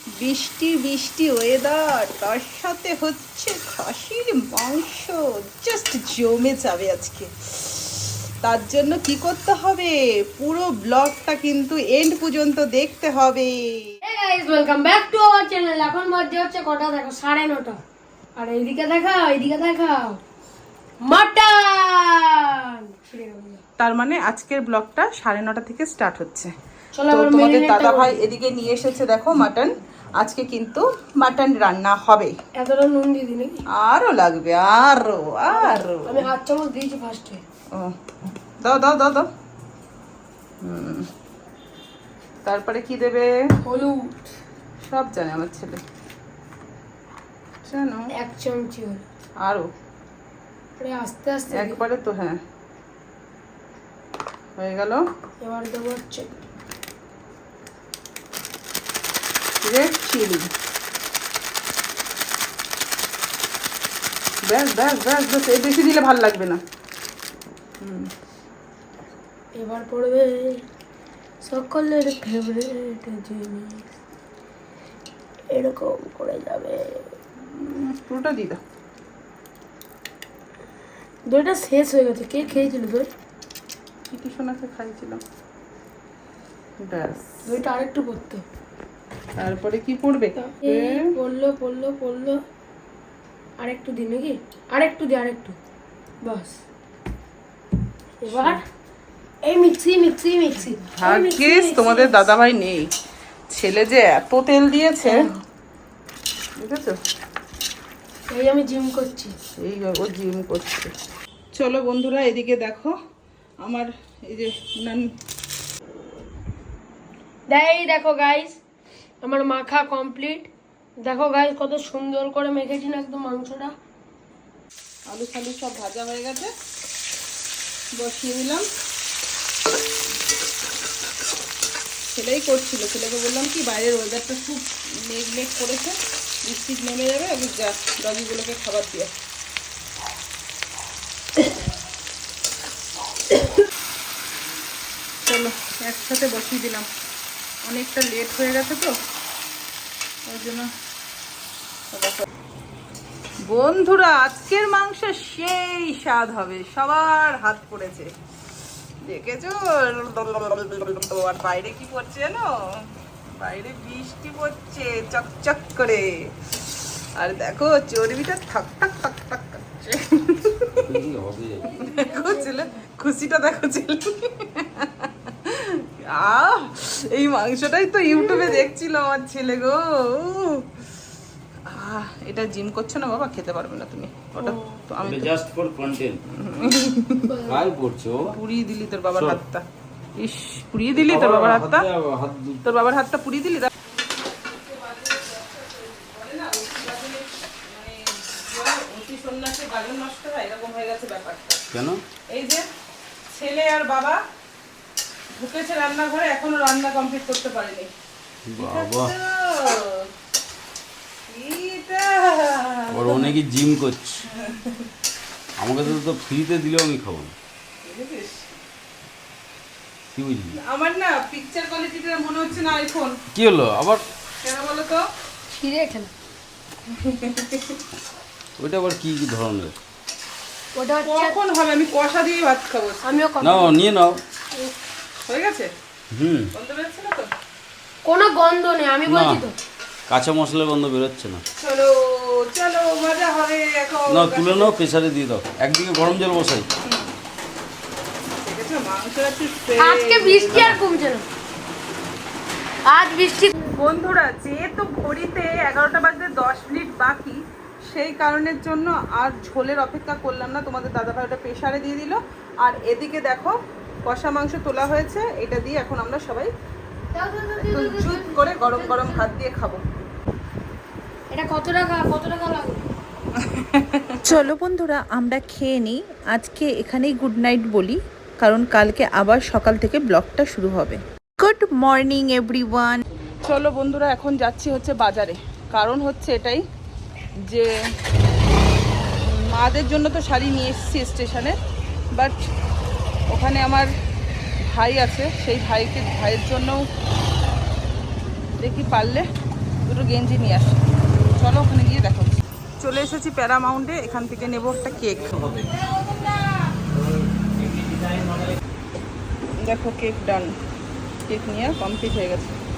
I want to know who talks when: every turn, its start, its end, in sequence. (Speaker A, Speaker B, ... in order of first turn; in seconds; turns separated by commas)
Speaker A: 0.2-13.9, Speaker B: 14.0-17.8, Speaker B: 18.4-20.2, Speaker B: 21.1-23.6, Speaker A: 23.8-26.5, Speaker B: 26.9-28.2, Speaker A: 27.1-32.3, Speaker B: 32.6-33.5, Speaker A: 33.8-36.2, Speaker B: 35.5-37.4, Speaker A: 38.6-39.3, Speaker A: 40.6-41.1, Speaker A: 42.4-43.3, Speaker B: 43.6-44.3, Speaker A: 44.8-45.8, Speaker A: 47.6-48.1, Speaker B: 48.1-49.0, Speaker A: 49.4-49.7, Speaker B: 50.8-51.8, Speaker A: 51.5-52.4, Speaker A: 54.6-55.0, Speaker B: 55.4-56.4, Speaker A: 59.6-60.5, Speaker A: 64.4-66.6, Speaker A: 67.8-68.1, Speaker B: 69.6-70.6, Speaker B: 71.4-73.8, Speaker B: 75.5-77.1, Speaker A: 77.5-78.6, Speaker B: 81.3-83.1, Speaker A: 84.1-85.2, Speaker A: 86.8-87.4, Speaker B: 87.5-88.4, Speaker A: 89.4-91.1, Speaker B: 90.4-92.4, Speaker B: 93.6-95.6, Speaker B: 96.2-96.6, Speaker B: 98.2-98.6, Speaker B: 99.4-102.3, Speaker A: 101.0-102.9, Speaker A: 103.5-105.3, Speaker B: 105.0-105.3, Speaker A: 106.6-107.0, Speaker B: 108.3-109.4, Speaker A: 109.6-110.9, Speaker A: 111.5-113.0, Speaker A: 113.6-115.1, Speaker B: 117.5-118.6, Speaker B: 119.2-120.5, Speaker B: 121.0-123.7, Speaker A: 125.1-126.5, Speaker A: 128.0-128.7, Speaker A: 132.1-139.1, Speaker A: 145.2-146.9, Speaker A: 147.6-148.9, Speaker A: 150.3-150.7, Speaker A: 151.9-152.2, Speaker A: 153.4-158.1, Speaker A: 159.0-162.5, Speaker A: 163.3-166.3, Speaker A: 167.2-170.8, Speaker C: 170.8-171.6, Speaker A: 171.7-180.7, Speaker B: 171.7-172.8, Speaker B: 178.1-178.6, Speaker A: 181.7-185.3, Speaker B: 184.4-184.7, Speaker C: 185.0-186.2, Speaker A: 186.3-187.3, Speaker B: 187.3-187.7, Speaker C: 187.4-188.3, Speaker A: 188.3-189.6, Speaker A: 190.2-191.9, Speaker C: 190.9-192.7, Speaker A: 192.6-201.6, Speaker C: 201.7-202.0, Speaker A: 202.3-202.7, Speaker A: 203.3-204.2, Speaker A: 205.4-207.9, Speaker C: 208.4-209.1, Speaker A: 208.6-210.1, Speaker A: 211.3-213.3, Speaker C: 212.9-214.1, Speaker A: 214.4-214.8, Speaker C: 215.6-217.3, Speaker A: 217.8-218.5, Speaker C: 220.1-220.5, Speaker A: 220.6-223.2, Speaker C: 223.3-224.0, Speaker A: 224.4-225.0, Speaker B: 225.5-226.1, Speaker A: 226.9-227.8, Speaker C: 228.6-229.7, Speaker B: 230.7-231.3, Speaker A: 231.0-233.2, Speaker B: 233.0-233.8, Speaker C: 233.4-234.2, Speaker A: 235.3-235.7, Speaker C: 236.1-236.5, Speaker A: 236.5-237.3, Speaker B: 238.0-239.5, Speaker C: 239.1-239.5, Speaker C: 240.1-241.4, Speaker A: 241.6-244.7, Speaker C: 244.1-246.7, Speaker A: 246.8-247.1, Speaker A: 248.4-250.6, Speaker B: 249.8-251.2, Speaker C: 250.5-250.8, Speaker B: 252.8-253.6, Speaker A: 253.7-266.5, Speaker B: 267.1-269.3, Speaker A: 267.6-269.8, Speaker B: 271.3-272.8, Speaker A: 273.4-274.1, Speaker D: 274.2-283.0, Speaker A: 283.4-286.6, Speaker A: 289.2-291.6, Speaker A: 293.3-293.9, Speaker A: 294.6-296.8, Speaker A: 298.6-299.2, Speaker A: 299.9-300.8, Speaker A: 301.3-305.7, Speaker A: 309.6-310.6, Speaker A: 311.3-312.6